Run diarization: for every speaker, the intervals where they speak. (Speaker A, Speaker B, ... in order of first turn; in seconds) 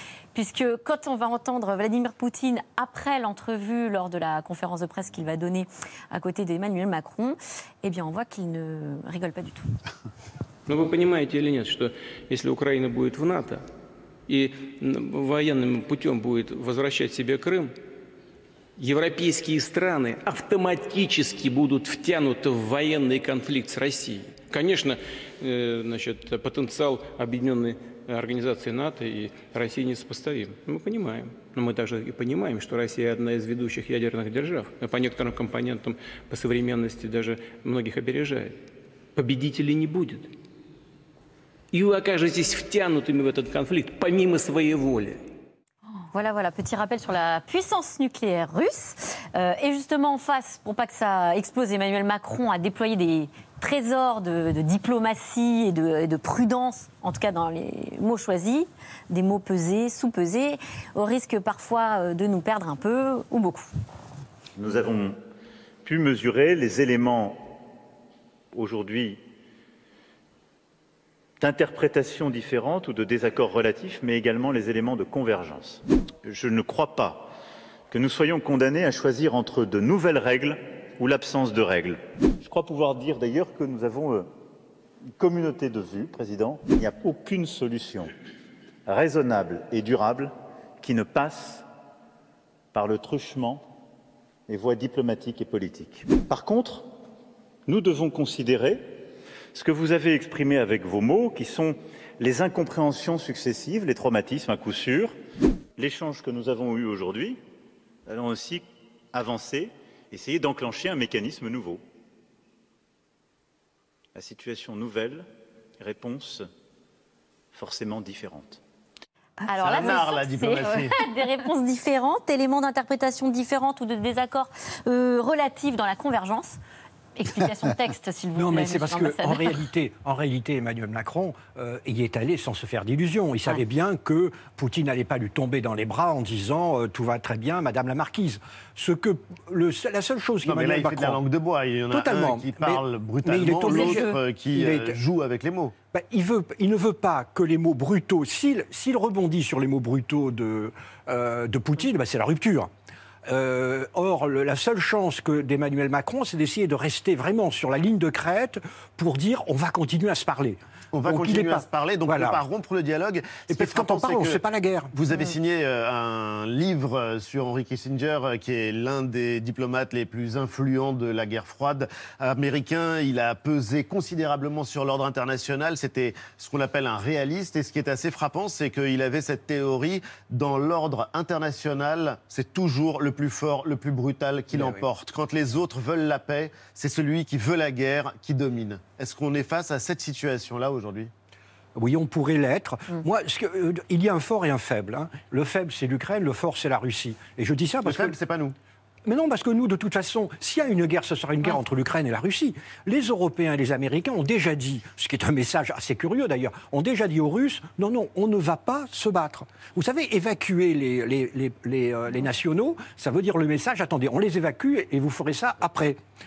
Speaker A: 0.3-9.7, 46.1-63.7, 119.5-126.6, 127.2-129.6, 143.8-144.1, 165.1-165.3
Speaker B: 10.7-13.6, 14.3-17.7, 18.8-38.6, 39.1-40.3, 41.7-45.2
Speaker C: 64.6-65.2, 65.8-67.5, 68.5-69.2, 71.4-77.3, 77.9-84.3, 85.2-88.1, 88.8-91.6, 92.7-93.6, 94.5-96.8, 97.7-98.9, 99.5-105.2, 105.8-107.4, 108.1-111.8, 114.1-115.3, 115.8-116.5, 117.5-118.6
Speaker D: 119.6-121.0, 140.4-145.7, 160.9-164.4, 164.9-191.1, 197.8-198.5
Speaker E: 128.3-141.2, 141.9-145.0, 145.9-152.7, 153.3-162.4, 163.5-164.9, 184.5-184.8, 191.8-198.2, 199.1-216.0